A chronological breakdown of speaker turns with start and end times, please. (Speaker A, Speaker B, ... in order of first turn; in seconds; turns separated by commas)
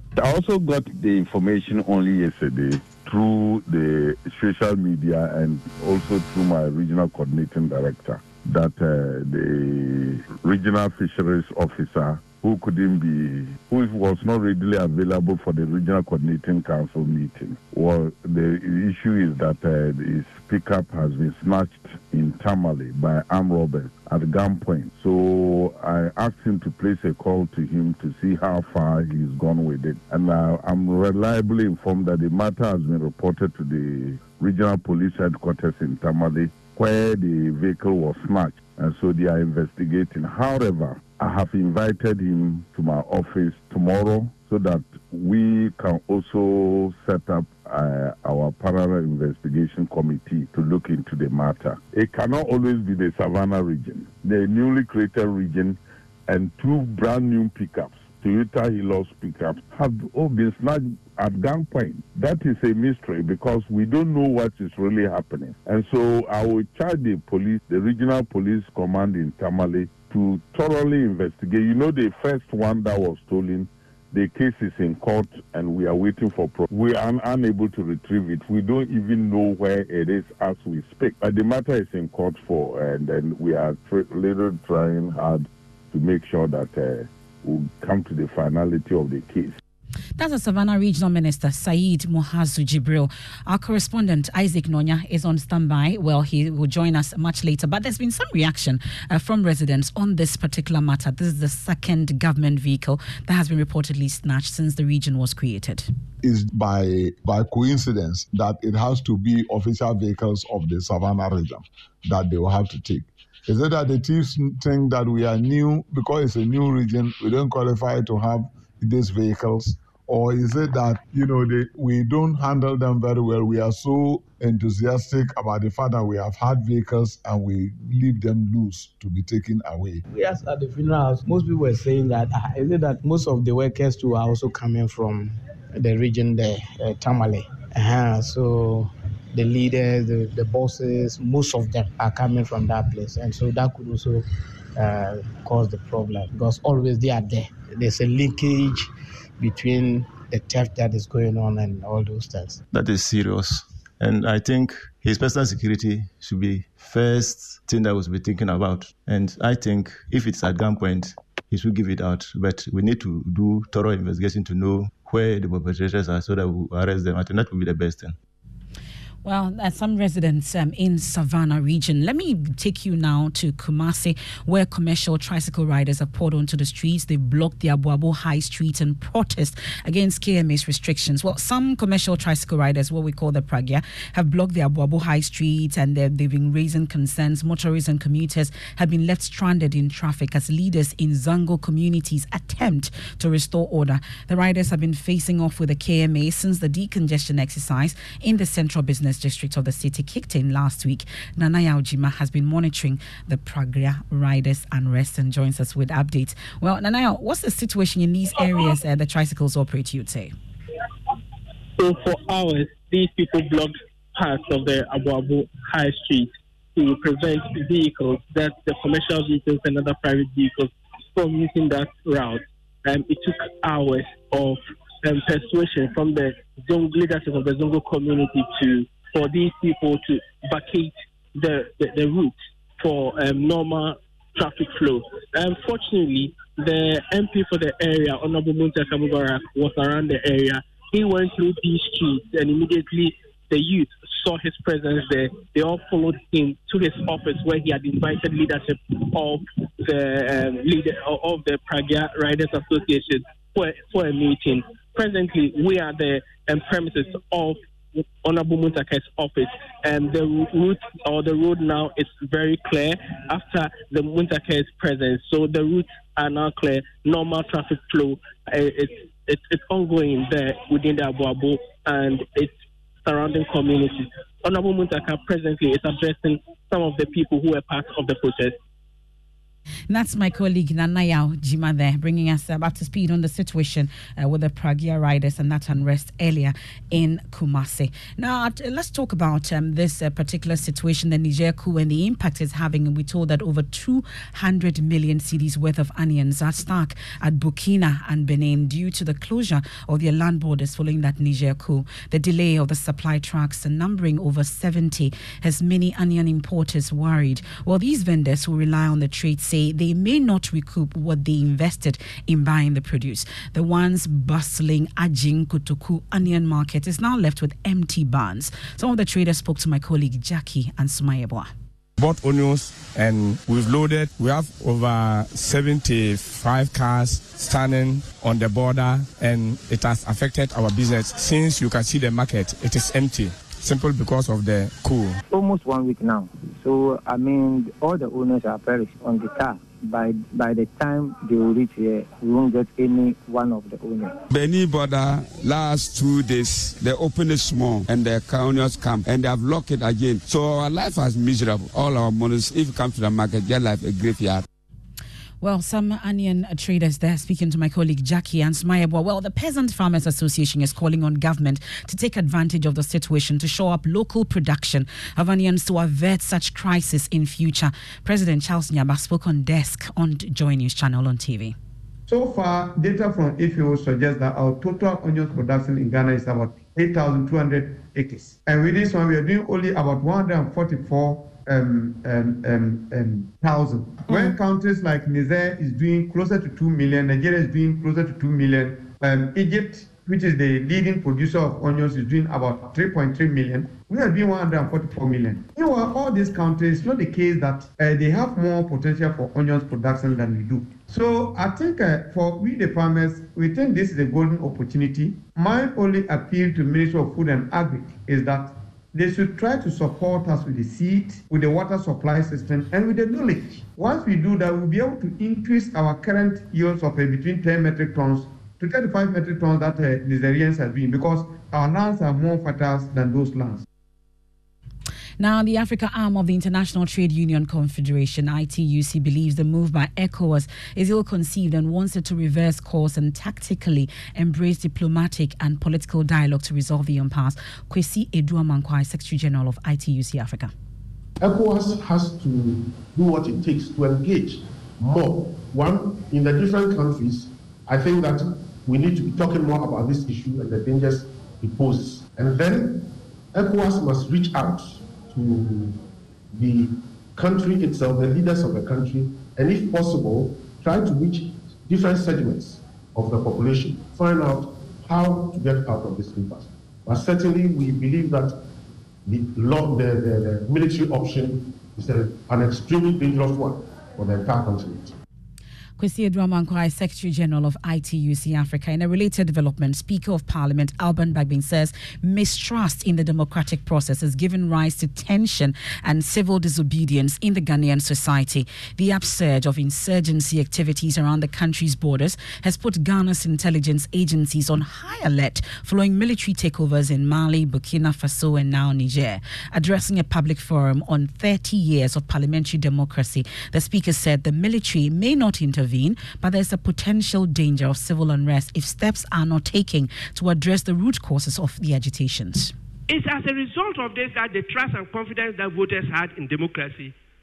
Speaker A: 0.1-89.5, Speaker B: 90.2-105.9, Speaker C: 106.2-130.0, Speaker D: 130.1-144.2, Speaker D: 144.8-148.9, Speaker D: 149.4-152.6, Speaker E: 152.7-168.1, Speaker B: 169.2-210.3, Speaker F: 211.8-216.2, Speaker F: 216.8-222.3, Speaker F: 222.9-224.5, Speaker F: 225.1-230.9, Speaker F: 231.4-232.3, Speaker F: 232.8-248.6, Speaker F: 249.9-257.5, Speaker F: 258.2-272.5, Speaker F: 273.1-278.5, Speaker B: 279.9-321.5, Speaker G: 322.0-335.2, Speaker H: 335.3-344.2, Speaker I: 344.3-354.4, Speaker B: 355.4-371.5, Speaker J: 372.1-423.6, Speaker B: 425.2-440.5, Speaker E: 444.8-445.7, Speaker K: 447.9-448.1, Speaker K: 448.9-452.6, Speaker K: 453.5-454.5, Speaker K: 457.4-460.0, Speaker K: 462.0-462.6, Speaker K: 463.1-463.8, Speaker E: 463.7-464.0, Speaker K: 465.2-466.4, Speaker K: 467.1-468.3, Speaker K: 469.1-471.4, Speaker E: 471.8-472.4, Speaker K: 471.9-472.4, Speaker K: 474.5-474.9, Speaker B: 475.8-512.5, Speaker L: 512.9-516.9